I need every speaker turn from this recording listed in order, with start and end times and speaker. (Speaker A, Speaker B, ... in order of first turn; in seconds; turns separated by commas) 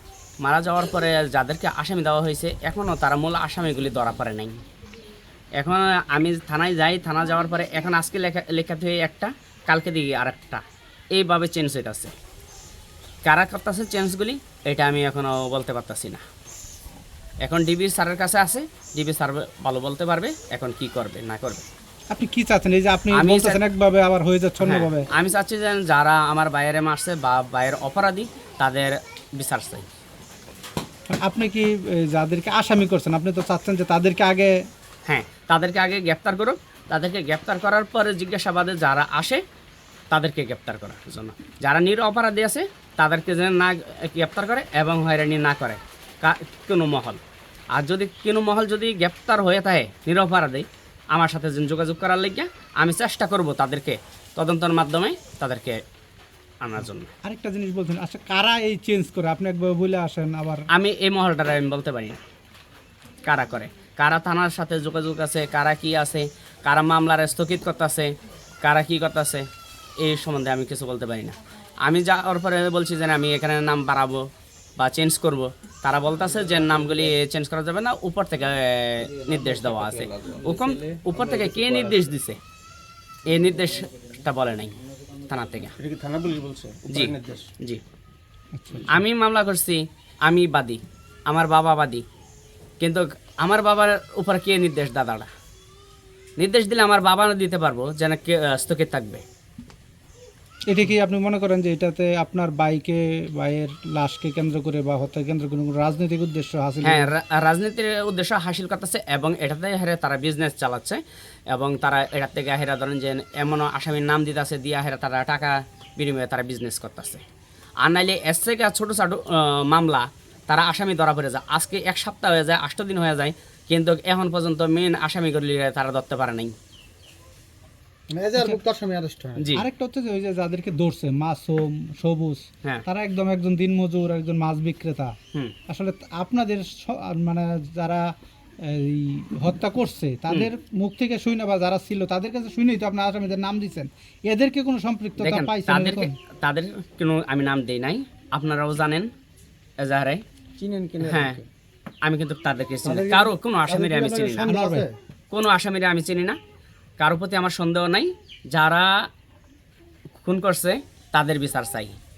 Speaker A: 0.4-4.6, Speaker A: 5.6-10.6, Speaker A: 11.1-12.1, Speaker A: 13.2-16.2, Speaker A: 17.4-21.6, Speaker B: 22.1-25.1, Speaker A: 23.1-23.6, Speaker A: 24.6-29.9, Speaker B: 31.1-34.5, Speaker A: 35.1-39.4, Speaker A: 40.1-47.2, Speaker A: 47.7-55.8, Speaker A: 56.6-57.1, Speaker B: 57.2-60.6, Speaker A: 60.7-62.2, Speaker A: 63.2-69.5, Speaker A: 70.0-74.3, Speaker A: 74.8-82.4, Speaker C: 79.3-81.6, Speaker A: 83.2-84.7, Speaker A: 85.3-85.8, Speaker C: 85.8-87.5, Speaker A: 86.9-87.8, Speaker B: 88.5-89.0, Speaker A: 88.9-92.0, Speaker A: 92.8-95.3, Speaker A: 96.4-99.2, Speaker B: 100.7-107.1, Speaker A: 106.8-117.2, Speaker A: 117.8-126.5, Speaker C: 128.1-129.5, Speaker A: 129.4-129.7, Speaker B: 129.5-135.1, Speaker B: 135.7-138.0, Speaker B: 138.6-146.1, Speaker A: 145.2-149.1, Speaker A: 149.8-150.2, Speaker C: 150.6-151.4, Speaker A: 151.0-151.4, Speaker A: 152.0-154.5, Speaker C: 152.8-154.9, Speaker B: 154.4-154.8, Speaker A: 155.3-156.4, Speaker A: 157.0-159.1, Speaker A: 160.2-161.9